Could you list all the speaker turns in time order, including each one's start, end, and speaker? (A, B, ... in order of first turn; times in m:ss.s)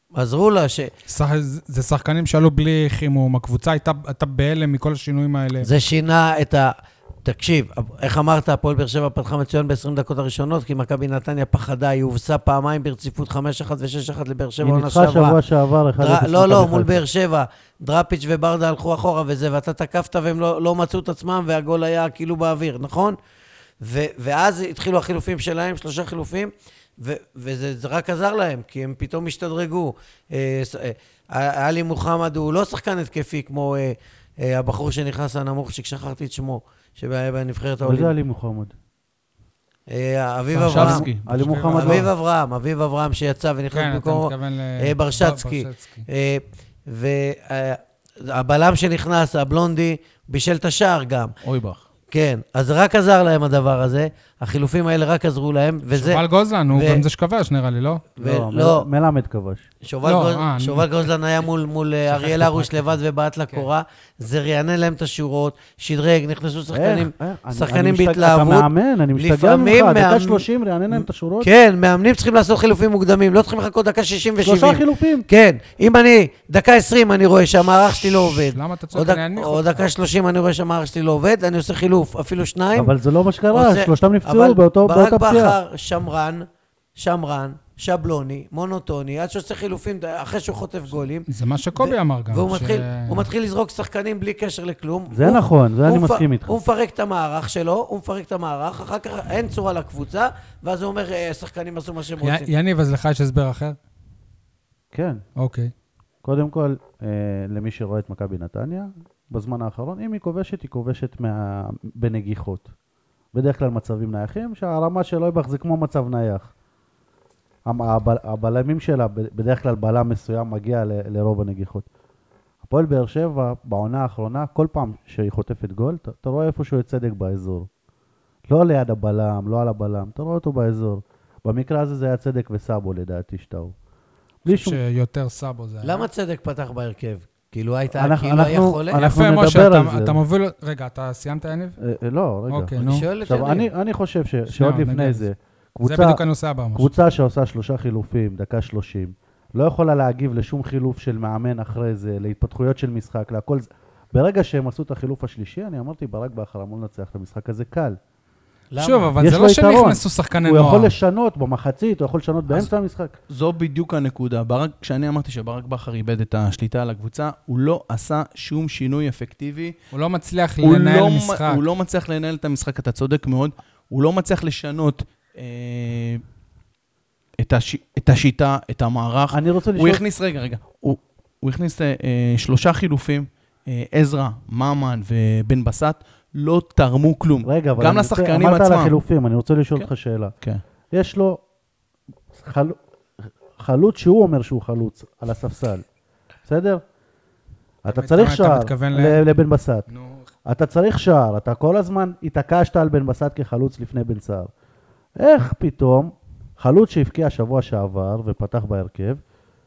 0:00.1-0:00.9 A
0:01.1-0:05.7 B
0:05.6-0:15.4 A
0:14.6-0:17.0 C
0:16.0-0:23.2 A
0:23.8-0:38.1 A
0:37.8-0:38.7 C
0:39.9-0:41.0 A
0:40.5-0:42.0 D
0:40.7-0:42.1 C
0:41.3-0:42.1 B
0:41.8-0:51.3 A
0:43.7-0:46.1 B
0:51.4-0:51.8 D
0:52.1-0:57.1 A
0:55.9-0:58.0 B
0:58.2-0:58.8 A
0:58.2-0:59.7 C
0:59.8-1:22.9 A
1:00.0-1:01.1 B
1:02.1-1:02.9 B
1:06.7-1:11.5 C
1:14.4-1:15.3 C
1:18.0-1:19.8 B
1:22.8-1:25.6 C
1:23.5-1:42.5 A
1:31.3-1:33.3 B
1:35.1-1:36.5 C
1:42.2-1:43.8 B
1:44.9-1:45.2 C
1:45.4-1:45.7 B
1:46.2-1:52.7 C
1:53.3-1:56.5 C
1:57.7-2:01.9 C
2:02.6-2:07.7 C
2:08.5-2:13.7 C
2:14.4-2:14.8 C
2:14.5-2:16.1 B
2:15.8-2:19.0 A
2:17.9-2:20.2 C
2:19.0-2:21.8 B
2:21.8-2:26.2 C
2:22.5-2:23.1 B
2:22.8-2:23.7 A
2:24.5-2:25.3 B
2:25.8-2:26.9 B
2:26.8-2:38.0 C
2:38.7-2:39.2 A
2:38.8-2:40.9 B
2:39.2-2:43.2 C
2:43.3-2:49.8 D
2:49.9-2:51.6 B
2:50.6-2:56.2 D
2:57.4-3:09.0 D
2:59.3-3:00.0 C
3:07.4-3:10.3 C
3:10.9-3:11.4 C
3:12.3-3:12.8 C
3:13.6-3:15.8 C
3:16.5-3:16.8 C
3:17.8-3:19.9 C
3:17.9-3:19.2 B
3:19.9-3:20.3 B
3:20.5-3:24.5 C
3:25.2-3:29.2 C